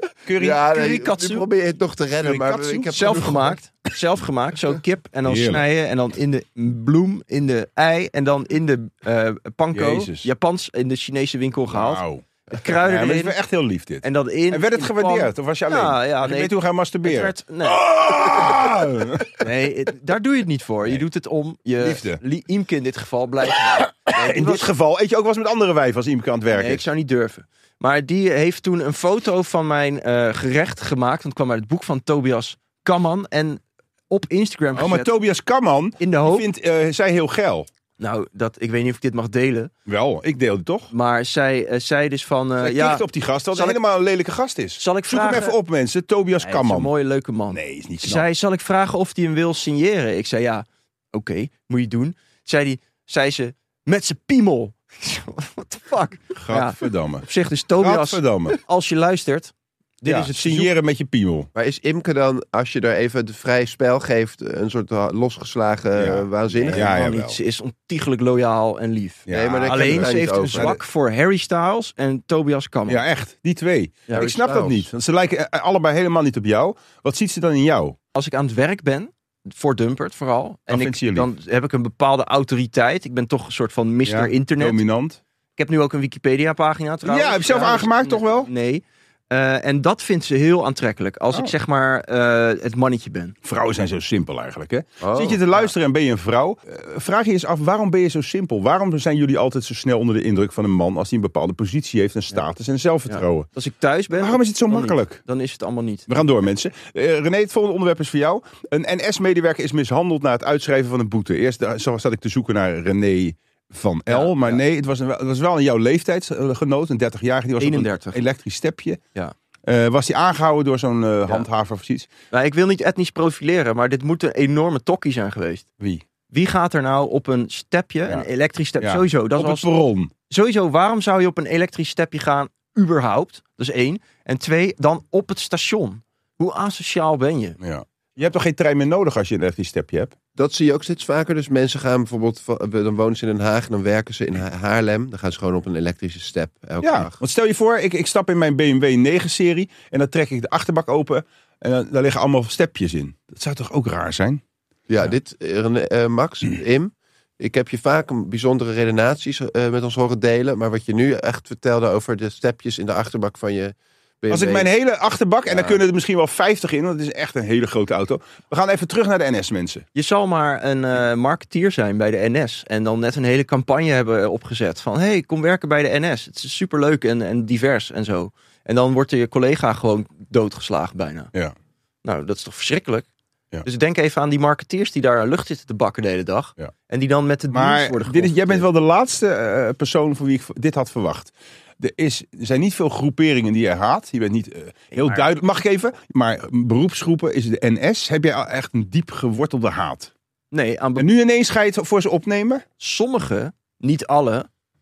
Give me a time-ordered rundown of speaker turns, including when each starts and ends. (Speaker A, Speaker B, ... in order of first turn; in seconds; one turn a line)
Speaker A: 0.2-0.8
Speaker B: 0.4-3.5
Speaker C: 0.7-1.4
Speaker A: 2.2-3.3
Speaker C: 2.9-13.4
Speaker A: 5.2-5.6
Speaker A: 9.7-10.3
Speaker A: 11.7-19.4
Speaker C: 14.0-18.6
Speaker C: 19.4-24.7
Speaker A: 21.8-22.2
Speaker A: 23.6-26.9
Speaker C: 26.5-35.1
Speaker A: 34.7-37.7
Speaker C: 36.0-36.5
Speaker C: 38.0-39.7
Speaker A: 39.9-40.9
Speaker C: 40.9-43.8
Speaker A: 42.6-46.9
Speaker C: 44.8-45.6
Speaker C: 46.4-60.7
Speaker A: 47.5-48.2
Speaker A: 56.4-57.3
Speaker A: 57.8-58.6
Speaker A: 60.0-61.5
Speaker B: 61.5-66.9
Speaker A: 66.0-67.4
Speaker C: 66.5-73.0
Speaker A: 69.3-70.8
Speaker B: 69.3-70.7
Speaker A: 72.9-78.0
Speaker B: 74.1-74.9
Speaker C: 78.1-84.8
Speaker A: 80.7-81.3
Speaker A: 84.0-85.2
Speaker C: 85.5-93.3
Speaker A: 87.0-88.5
Speaker A: 93.4-103.5
Speaker B: 95.0-95.4
Speaker C: 103.1-106.1
Speaker A: 104.2-105.2
Speaker A: 106.1-119.0
Speaker C: 114.1-114.6
Speaker C: 117.6-118.2
Speaker A: 119.7-122.1
Speaker C: 122.3-125.7
Speaker C: 126.3-129.7
Speaker A: 128.8-130.1
Speaker C: 130.3-137.6
Speaker A: 137.6-140.1
Speaker B: 140.3-147.2
Speaker A: 146.8-154.4
Speaker B: 154.9-164.7
Speaker A: 164.3-169.8
Speaker B: 165.5-165.8
Speaker C: 169.9-181.3
Speaker C: 182.0-183.1
Speaker C: 183.6-188.7
Speaker A: 187.5-200.1
Speaker C: 194.9-195.3
Speaker C: 200.5-201.1
Speaker A: 201.0-202.6
Speaker C: 202.8-204.5